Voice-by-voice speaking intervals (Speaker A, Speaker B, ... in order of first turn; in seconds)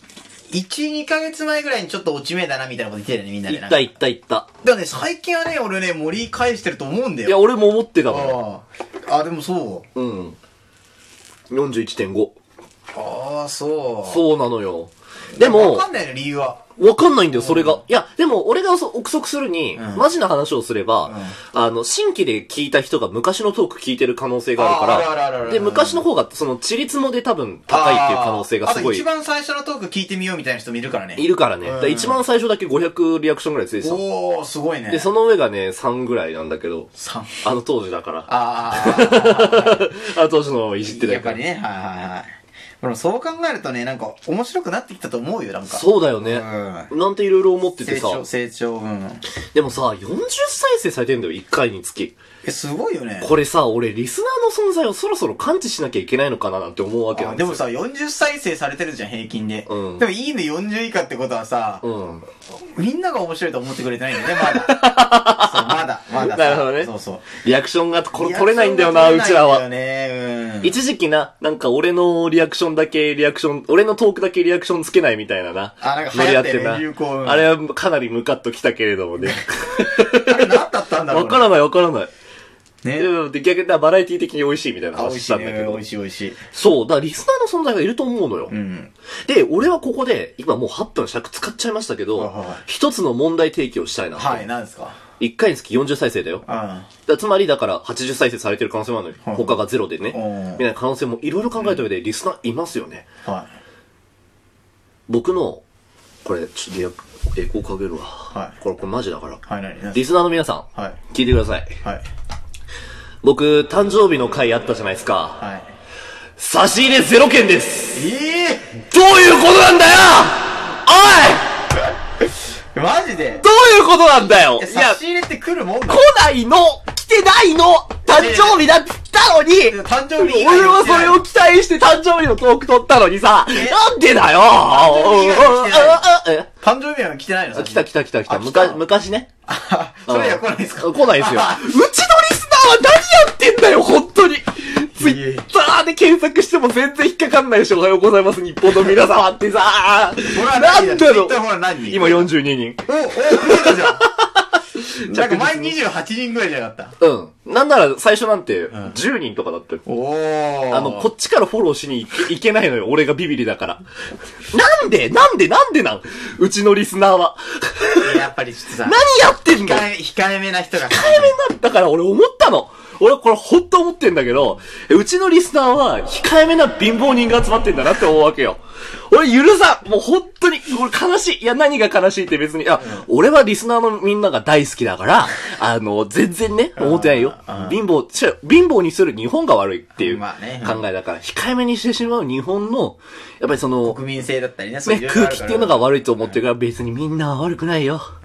Speaker A: 0.5-3.9, 4.6-7.4, 8.1-9.9, 12.9-14.2, 15.4-16.6, 17.3-17.8, 19.8-20.1, 21.1-21.4, 24.6-26.1, 27.7-32.2, 33.8-35.1, 37.0-37.3, 38.3-39.9, 40.9-46.9, 47.8-49.2, 52.4-53.3, 57.1-61.9, 62.7-67.3, 68.1-70.8, 75.8-77.5, 79.2-81.5, 82.8-83.1, 84.9-86.4, 88.5-88.9, 92.2-92.6, 94.2-95.0, 96.5-96.9, 99.2-99.5, 100.1-100.6, 109.5-110.0, 115.4-115.7, 117.9-118.8, 122.7-123.5, 124.6-126.1, 128.1-128.7, 129.7-131.2, 133.5-133.8, 134.5-136.0, 136.6-138.8, 139.5-141.7, 145.0-145.5, 150.3-152.3, 152.9-154.1, 155.1-156.9, 159.9-161.1, 168.0-171.4, 186.8-187.8, 190.0-190.8, 193.8-196.4
Speaker B: 3.5-4.5, 7.3-8.4, 9.9-10.4, 11.5-12.3, 14.1-15.8, 16.8-29.1, 31.2-34.0, 34.9-36.9, 37.4-41.4, 45.7-48.2, 49.5-52.2, 53.2-57.6, 59.7-60.1, 61.8-62.3, 64.3-66.9, 67.4-69.6, 70.6-82.1, 83.0-85.8, 86.5-88.5, 89.3-94.4, 95.2-96.4, 97.1-103.0, 105.1-105.6, 106.2-109.4, 109.9-111.8, 113.2-115.4, 116.4-118.1, 118.9-121.5, 123.4-125.0, 125.9-136.5, 137.6-139.3, 140.1-152.8, 153.4-155.8, 157.0-159.8, 160.7-163.8, 164.5-168.1, 168.8-169.9, 170.8-194.0, 194.9-198.1